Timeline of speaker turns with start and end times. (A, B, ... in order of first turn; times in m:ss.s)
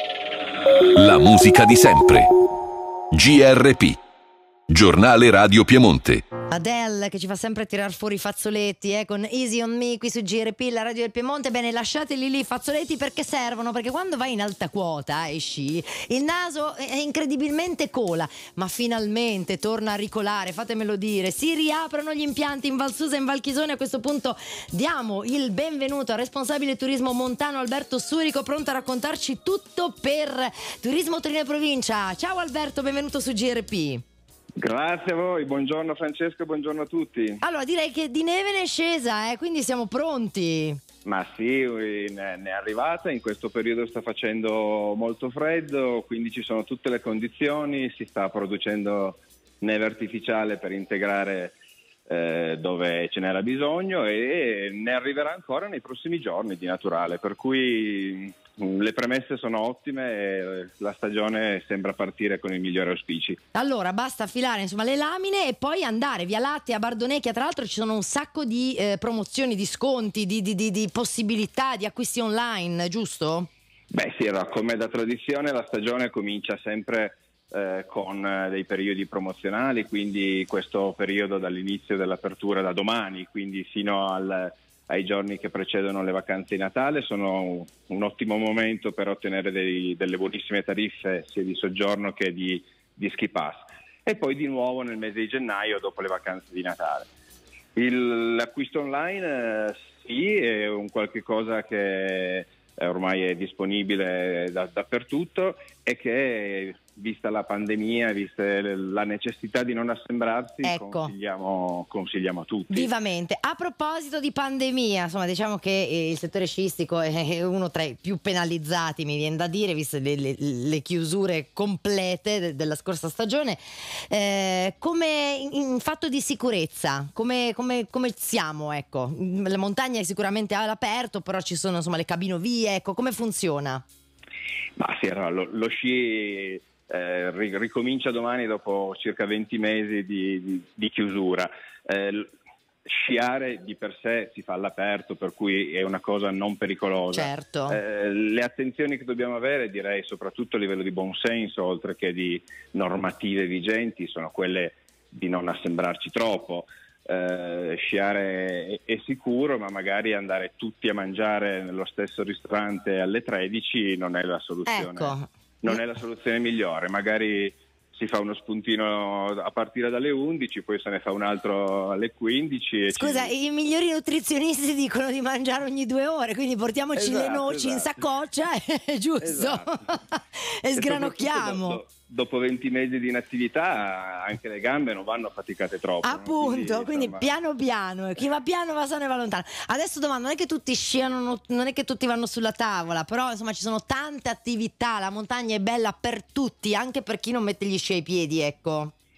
0:00.9-0:02.3 A
0:03.1-0:04.0 A
0:04.7-0:06.2 A
0:06.5-0:34.0 B
0:34.6-0:37.4 C
0:37.4-0:40.8 B
0:41.0-0:51.6 C
0:52.1-1:03.4 C
1:03.5-1:13.5 B
1:13.9-1:37.1 C
1:37.8-1:52.9 C
1:50.6-1:51.1 B
1:52.7-2:13.8 B
2:14.8-2:22.3 C
2:22.8-2:53.3 C
2:27.1-2:27.8 B
2:44.7-2:45.8 B
2:52.9-3:01.8 B
2:56.9-2:57.9 C
2:59.2-2:59.9 C
3:00.7-3:07.3 C
3:06.0-3:18.9 B